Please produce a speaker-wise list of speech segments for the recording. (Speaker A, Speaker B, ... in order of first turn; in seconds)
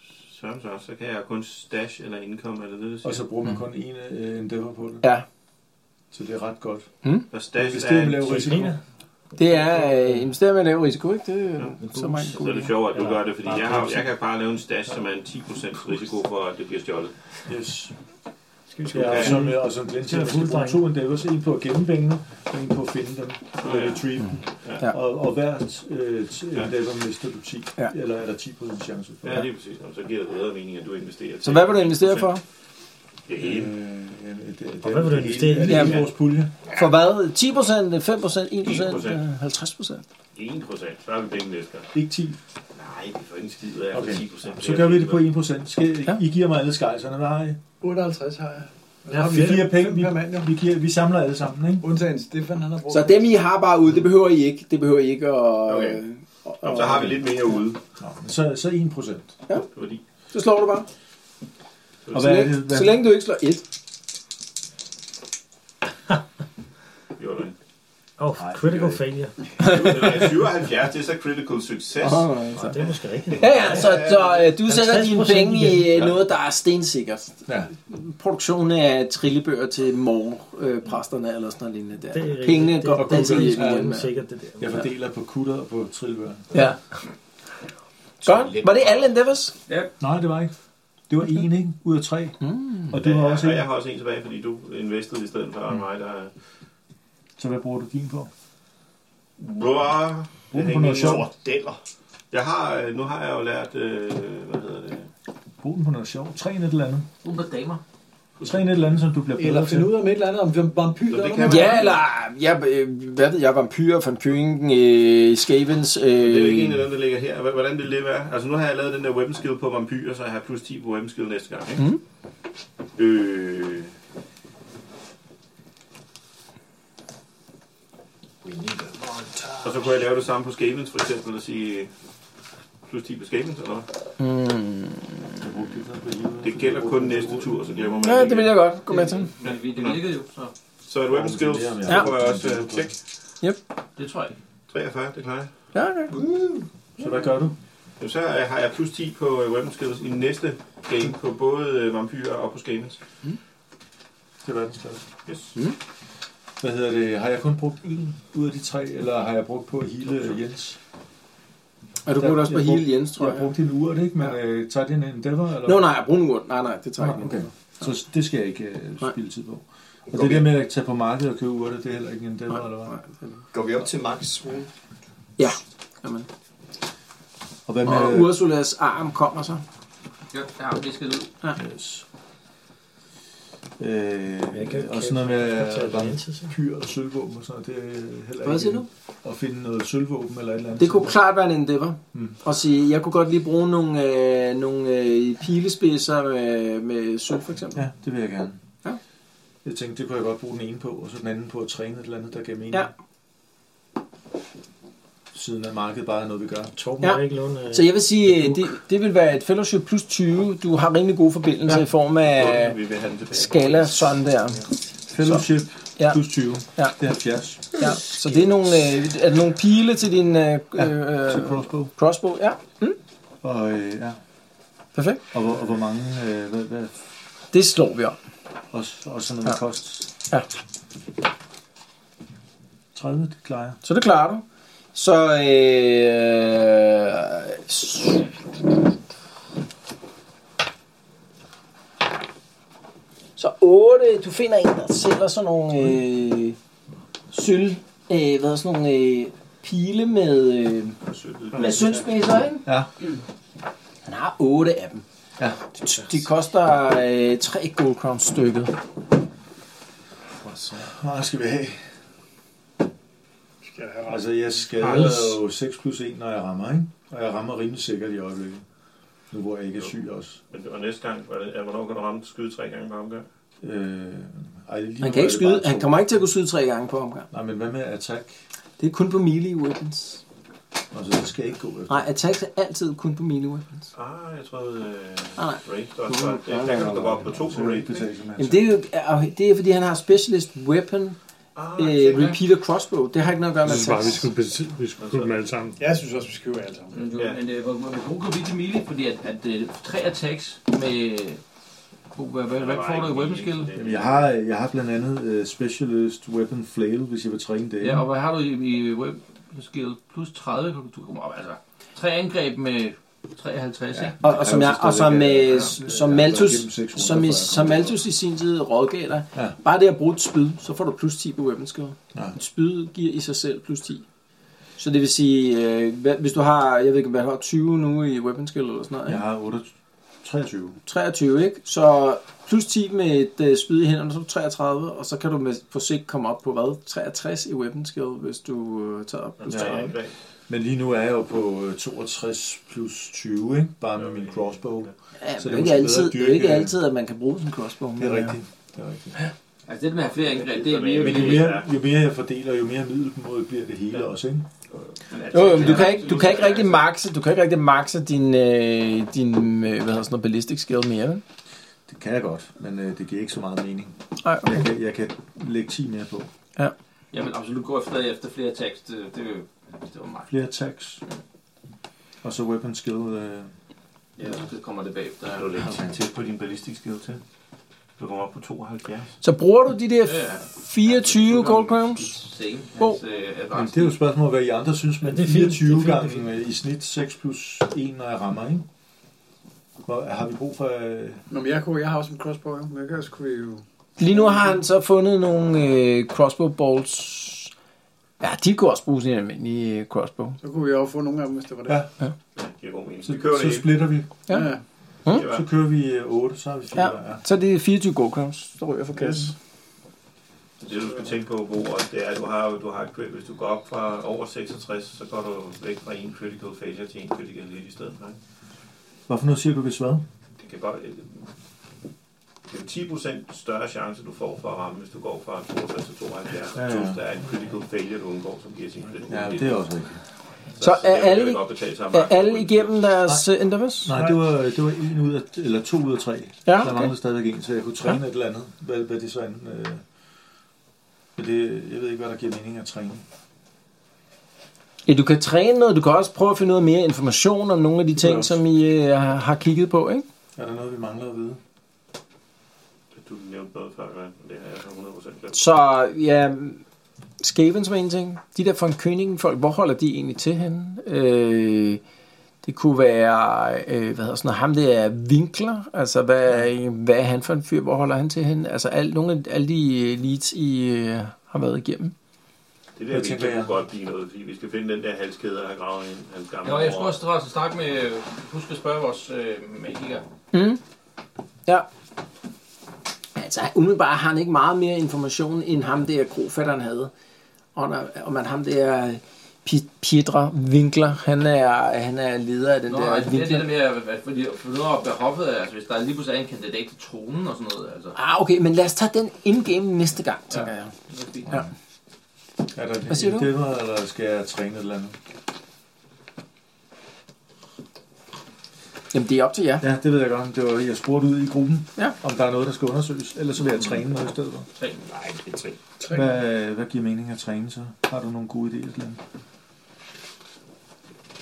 Speaker A: 0.3-3.2, 7.3-8.4, 11.6-17.1, 18.9-19.4, 23.6-24.1, 29.2-32.4, 33.3-33.7, 38.6-39.2, 40.4-41.9, 42.7-45.3, 55.7-56.0, 56.6-57.8, 59.6-60.0, 67.2-67.6, 69.6-72.4, 73.3-74.5, 88.5-88.9, 92.9-96.3, 99.4-101.8, 102.3-105.1, 111.0-112.0, 116.2-121.8, 123.0-123.9, 129.6-131.9, 132.9-133.9, 136.4-138.6, 139.4-140.1, 140.9-142.9, 144.7-145.5, 148.0-153.0, 155.3-155.6, 212.2-214.2, 251.1-252.0, 270.5-273.3, 283.9-288.1, 291.6-292.4, 295.0-295.4, 297.1-297.4, 302.5-304.3, 339.4-340.1, 343.9-344.9, 350.2-351.7, 355.1-356.8, 375.3-377.2, 378.0-379.1, 402.4-403.9, 405.1-405.5, 410.6-418.2, 420.4-421.2, 422.5-429.7, 430.6-432.8, 452.9-455.4, 472.8-477.0
Speaker B: 3.0-5.0, 6.1-6.9, 7.5-8.8, 17.5-17.9, 18.9-29.5, 33.4-36.5, 41.9-42.4, 43.9-47.6, 49.1-51.9, 58.0-59.3, 62.1-63.0, 68.4-69.0, 77.5-77.7, 82.9-84.0, 84.6-86.6, 90.0-90.5, 91.1-93.7, 97.4-98.3, 100.5-101.3, 105.6-107.1, 108.4-110.0, 135.4-138.0, 141.1-142.9, 147.0-147.6, 154.4-155.1, 156.6-160.8, 162.2-165.9, 167.0-172.9, 177.7-178.4, 181.6-182.1, 183.8-191.2, 192.1-192.4, 197.7-198.6, 199.6-202.9, 205.3-206.7, 215.1-217.9, 220.8-221.9, 223.4-224.2, 225.3-227.0, 228.7-230.1, 232.9-233.8, 252.7-252.9, 260.8-261.8, 264.1-268.6, 269.3-270.4, 273.6-276.1, 277.3-278.4, 280.9-282.1, 287.2-288.7, 303.8-308.1, 313.9-318.0, 329.1-329.7, 330.2-330.8, 339.5-339.9, 340.5-346.8, 348.0-349.2, 351.0-354.5, 361.9-366.3, 370.3-371.0, 372.2-373.5, 375.6-375.9, 383.5-388.7, 389.9-391.2, 403.0-404.5, 405.2-407.2, 419.1-420.1, 426.5-427.0, 429.1-430.0, 433.8-439.8, 441.2-443.0, 447.9-448.4, 450.4-451.4, 472.9-473.6, 502.5-505.0, 509.6-514.5, 515.9-519.0
Speaker C: 8.3-8.8, 9.4-10.2, 11.8-14.1, 18.7-20.8, 34.8-36.0, 68.2-69.5, 72.5-74.0, 74.6-76.0, 82.1-84.9, 184.5-186.5, 206.7-208.0, 385.0-386.3
Speaker D: 9.4-12.7, 31.4-32.4, 35.6-36.0, 36.7-40.0, 52.9-57.3, 60.3-60.9, 62.1-63.6, 72.0-72.8, 73.4-84.1, 86.5-86.8, 88.2-89.5, 92.4-92.9, 111.4-116.8, 134.2-135.4, 138.0-139.3, 145.7-146.2, 162.1-163.5, 165.7-167.5, 172.8-173.4, 175.4-176.3, 177.8-179.6, 188.4-188.9, 190.8-197.9, 207.0-212.8, 213.3-214.6, 215.2-215.5, 217.7-223.0, 224.9-225.2, 227.5-228.2, 233.8-234.4, 234.9-238.3, 243.4-246.6, 247.3-251.0, 251.5-252.7, 254.1-255.0, 255.8-258.8, 275.0-277.3, 278.8-280.2, 281.9-283.9, 285.4-287.3, 288.4-291.2, 291.8-294.3, 314.2-324.1, 324.8-329.2, 330.9-340.0, 345.2-348.4, 355.3-361.2, 364.2-364.6, 379.2-382.2, 394.0-397.5, 398.2-400.4, 406.8-409.3, 430.6-433.9, 436.5-436.9, 444.9-450.1, 455.3-456.6, 457.2-461.8, 462.4-471.9, 480.3-480.6, 483.2-486.9, 487.6-493.5, 497.9-500.7, 502.9-503.3, 508.9-509.7
Speaker E: 47.8-50.5, 51.8-53.4, 109.4-111.8, 263.6-264.8, 295.8-297.0, 391.3-394.6, 400.4-401.9, 404.3-404.6, 409.0-409.3
Speaker F: 107.2-107.8, 138.9-140.5, 144.0-144.4, 180.3-181.3, 296.9-301.4, 302.1-303.7, 307.8-314.2, 349.7-351.6, 355.4-356.6, 367.1-370.3, 374.2-375.6, 380.0-384.0, 476.4-480.0, 492.7-497.9, 500.3-501.3
Speaker G: 146.1-146.7, 170.1-170.5, 173.5-174.7, 514.9-515.6
Speaker H: 264.8-265.3, 293.6-295.8